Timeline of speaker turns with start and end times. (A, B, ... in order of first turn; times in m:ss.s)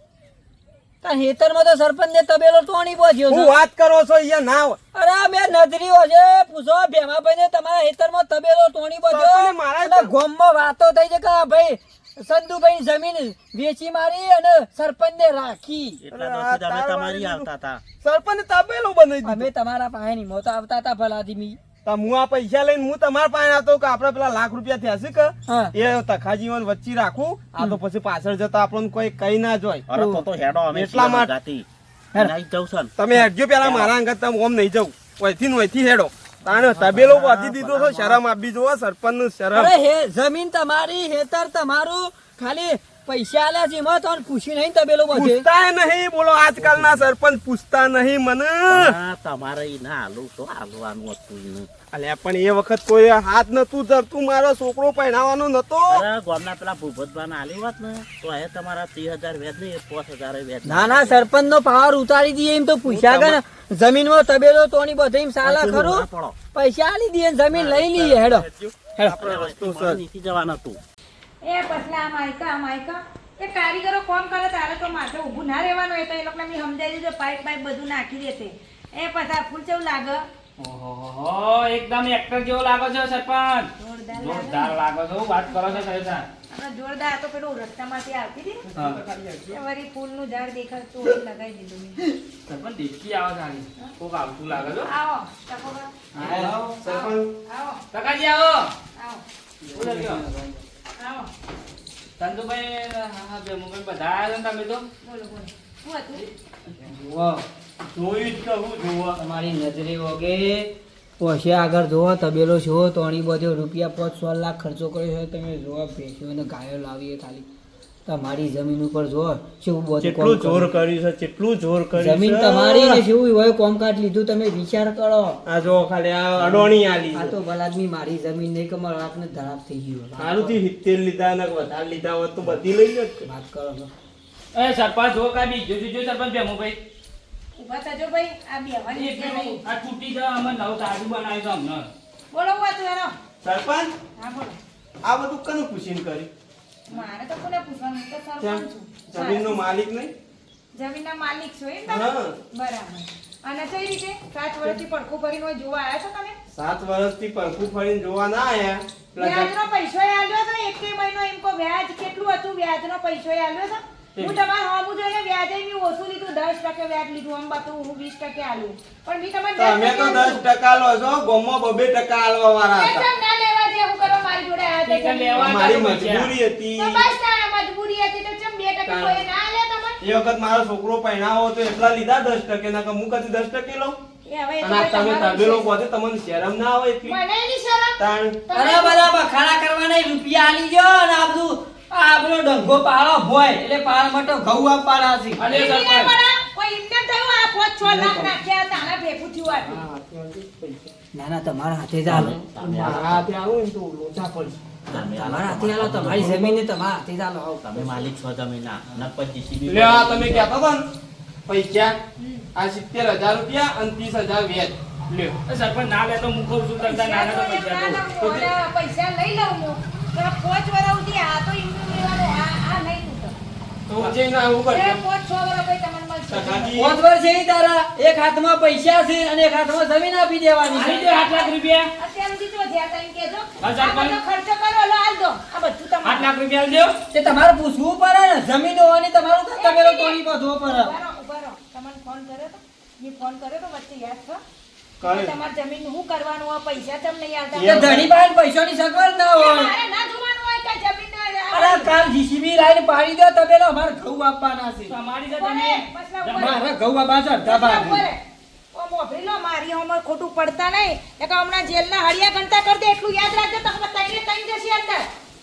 0:01.0-0:03.5 A
0:03.3-0:04.8 B
0:04.9-0:16.0 A
0:09.1-0:10.1 B
0:16.0-0:17.8 C
0:16.1-0:17.5 B
0:18.0-0:19.5 B
0:19.2-0:21.6 A
0:21.8-0:29.9 B
0:25.5-0:25.7 A
0:29.9-0:32.9 C
0:29.9-0:30.2 A
0:30.7-0:31.3 B
0:33.0-0:39.7 B
0:33.6-0:33.9 C
0:36.4-0:38.2 C
0:39.5-0:45.4 A
0:45.1-0:49.0 B
0:46.6-0:47.1 C
0:48.7-0:51.7 C
0:51.9-0:56.1 B
0:55.9-1:01.3 C
1:00.6-1:08.5 A
1:02.9-1:03.4 B
1:05.4-1:06.4 C
1:07.5-1:10.0 B
1:09.0-1:10.8 C
1:11.4-1:20.3 D
1:20.6-1:26.3 E
1:23.8-1:24.8 D
1:25.5-1:25.8 D
1:26.5-1:28.7 D
1:28.7-1:29.6 B
1:29.5-1:32.0 D
1:32.5-1:34.9 E
1:34.7-1:35.9 D
1:36.1-1:36.6 A
1:36.2-1:36.7 E
1:36.2-1:37.3 B
1:36.8-1:37.8 D
1:37.9-1:38.8 E
1:39.0-1:39.2 D
1:39.6-1:40.6 A
1:39.7-1:40.2 E
1:41.0-1:41.3 D
1:42.2-1:44.9 E
1:45.0-1:46.3 D
1:46.8-1:47.5 A
1:47.9-1:49.2 B
1:49.2-1:57.5 A
1:58.1-2:00.7 A
2:00.0-2:03.0 B
2:02.0-2:05.4 A
2:05.5-2:07.4 B
2:06.4-2:10.6 A
2:10.2-2:13.2 B
2:13.2-2:13.9 A
2:14.5-2:16.8 E
2:17.6-2:19.6 D
2:18.9-2:21.9 E
2:22.3-2:23.2 D
2:23.4-2:23.9 B
2:24.2-2:24.6 D
2:25.0-2:26.3 B
2:26.9-2:29.6 D
2:28.4-2:30.1 B
2:30.8-2:36.4 D
2:31.9-2:32.4 B
2:36.5-2:39.5 B
2:39.2-2:50.4 D
2:49.6-2:53.1 B
2:52.7-2:55.7 D
2:54.8-2:56.4 E
2:55.4-2:57.1 B
2:56.8-3:00.0 D
2:58.9-2:59.2 B
3:00.0-3:04.0 B
3:04.3-3:05.7 D
3:04.6-3:07.2 B
3:07.0-3:09.1 D
3:08.0-3:08.4 B
3:08.5-3:15.4 A
3:15.4-3:16.2 E
3:15.4-3:19.9 D
3:17.8-3:18.4 B
3:19.5-3:20.9 B
3:21.1-3:23.0 A
3:22.1-3:23.3 C
3:22.6-3:24.6 B
3:24.9-3:26.5 C
3:24.9-3:28.0 A
3:27.6-3:30.5 C
3:29.7-3:30.8 B
3:31.5-3:32.0 B
3:32.2-3:32.5 D
3:32.6-3:35.4 B
3:35.4-3:38.1 E
3:36.8-3:43.4 D
3:38.2-3:38.5 B
3:43.9-3:45.0 B
3:44.6-3:46.9 D
3:46.3-3:47.0 B
3:46.8-3:51.0 A
3:50.7-3:56.3 D
3:50.8-3:51.9 E
3:53.6-3:54.2 E
3:56.0-3:57.0 E
3:57.1-4:01.0 A
3:59.6-4:04.4 D
4:05.0-4:05.4 B
4:05.0-4:08.0 D
4:07.5-4:08.1 B
4:07.6-4:09.7 A
4:09.3-4:12.0 D
4:11.5-4:15.0 A
4:14.9-4:16.6 E
4:15.3-4:16.6 D
4:16.3-4:18.1 A
4:17.4-4:18.2 D
4:18.7-4:25.1 D